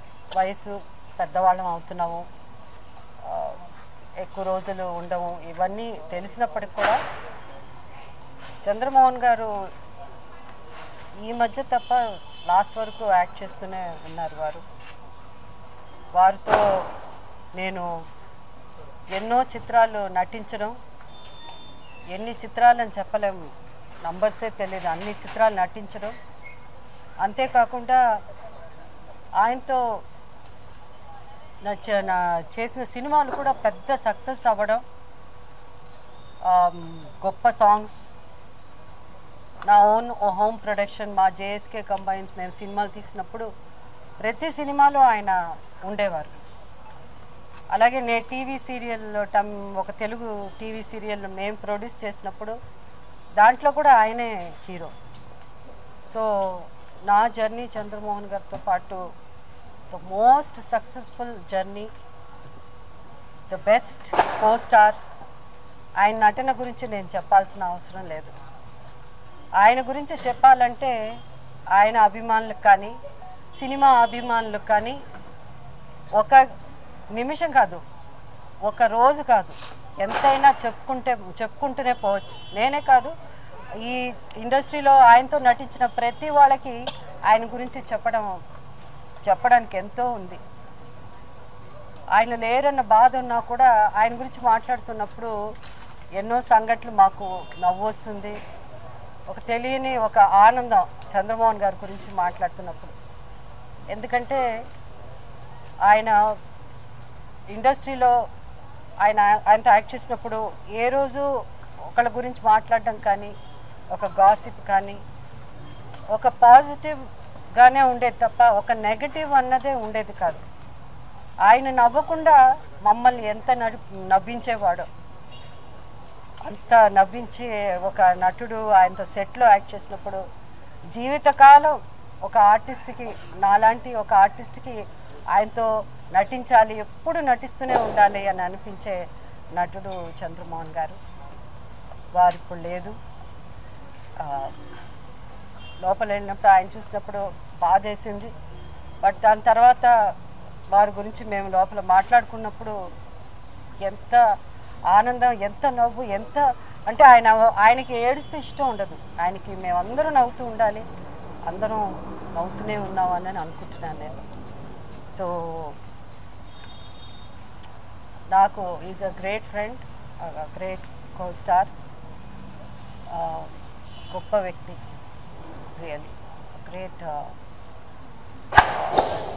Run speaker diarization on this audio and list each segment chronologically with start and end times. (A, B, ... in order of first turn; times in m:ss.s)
0:00.4-0:02.3 A
0:03.3-0:03.6 A
0:04.2-0:07.0 A
0:08.6-0:09.5 A
0:11.2-0:12.0 A
0:12.5-0:14.6 A
0:16.2-0:16.6 A
0:17.6-0:17.9 A
0:19.1-0:20.8 A
0:22.1-0:23.4 A
0:24.0-0:26.1 A
0:27.2-0:28.0 A
0:29.4-0:29.8 A
0:31.6-0:34.8 A
0:36.5-0:38.1 A
0:39.7-0:43.5 A
0:44.2-0:46.4 A
0:47.7-0:52.6 A
0:53.4-0:54.9 A
0:56.1-0:59.0 A
0:59.9-1:01.9 A
1:03.5-1:05.0 A
1:06.0-1:08.3 A
1:09.6-1:10.9 A
1:11.8-1:13.0 A
1:13.6-1:15.0 A
1:16.2-1:16.4 A
1:17.2-1:17.8 A
1:18.7-1:23.1 A
1:23.8-1:26.8 A
1:27.3-1:28.3 A
1:29.2-1:30.4 A
1:32.2-1:35.3 A
1:36.2-1:38.4 A
1:39.3-1:42.9 A
1:43.9-1:44.4 A
1:45.9-1:46.2 A
1:47.5-1:48.1 A
1:49.0-1:51.2 A
1:51.9-1:53.3 A
1:53.9-1:55.0 A
1:56.1-1:57.0 A
1:57.6-2:00.4 A
2:01.5-2:04.9 A
2:06.4-2:10.2 A
2:11.0-2:14.8 A
2:15.4-2:19.0 A
2:19.6-2:21.0 A
2:22.2-2:23.0 A
2:24.2-2:24.5 A
2:25.8-2:28.3 A
2:29.0-2:29.9 A
2:30.7-2:32.7 A
2:33.8-2:34.2 A
2:34.9-2:40.9 A
2:41.5-2:44.2 A
2:45.1-2:45.8 A
2:48.3-2:51.7 A
2:53.1-2:53.5 A
2:54.1-2:54.8 A
2:55.7-2:57.3 A
2:58.8-2:59.1 A